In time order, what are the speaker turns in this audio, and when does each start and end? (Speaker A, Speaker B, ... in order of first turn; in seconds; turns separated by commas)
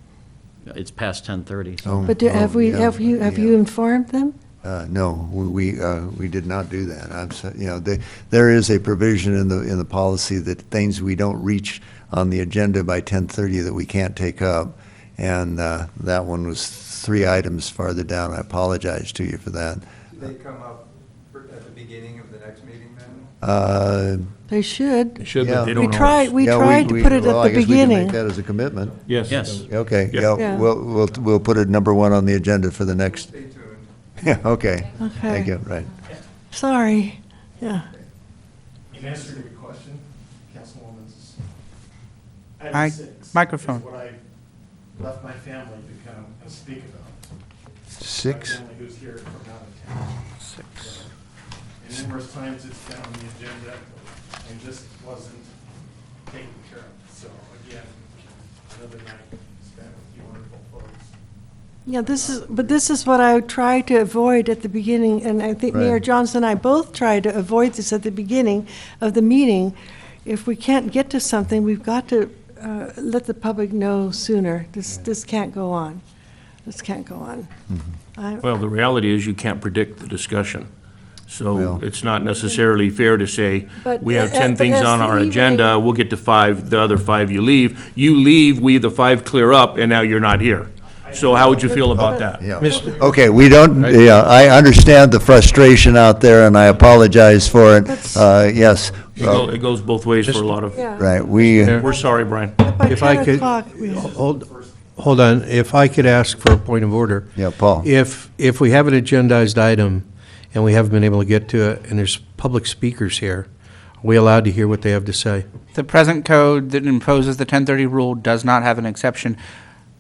Speaker A: 0.7-2.2, Speaker B: 1.8-3.6, Speaker C: 2.1-4.4, Speaker B: 4.6-19.9, Speaker D: 20.1-23.3, Speaker B: 23.4-24.3, Speaker C: 24.5-28.2, Speaker E: 25.2-27.0, Speaker B: 25.4-29.0, Speaker E: 29.1-30.4, Speaker A: 29.3-29.6, Speaker B: 29.5-33.3, Speaker C: 30.4-30.7, Speaker D: 33.0-33.9, Speaker B: 34.2-35.9, Speaker C: 35.0-35.5, Speaker C: 36.5-37.9, Speaker F: 38.9-41.4, Speaker F: 42.6-44.2, Speaker G: 42.7-43.8, Speaker F: 44.9-47.3, Speaker B: 48.0-48.6, Speaker F: 48.2-50.3, Speaker G: 50.4-50.9, Speaker F: 50.8-51.1, Speaker F: 51.8-55.5, Speaker F: 56.3-61.1, Speaker C: 61.9-76.0, Speaker F: 61.9-62.8, Speaker B: 65.7-66.0, Speaker C: 76.7-77.5, Speaker C: 78.2-78.5, Speaker E: 78.4-80.7, Speaker E: 81.3-92.9, Speaker B: 81.5-81.8, Speaker C: 83.8-85.7, Speaker F: 91.0-91.6, Speaker C: 91.5-93.0, Speaker B: 92.4-99.5, Speaker H: 92.6-92.9, Speaker C: 97.9-98.2, Speaker E: 99.1-102.9, Speaker C: 100.6-101.1, Speaker B: 101.0-101.8, Speaker C: 101.7-104.2, Speaker H: 102.8-113.5, Speaker F: 104.1-106.4, Speaker B: 107.3-107.9, Speaker H: 114.0-115.5, Speaker G: 115.7-119.4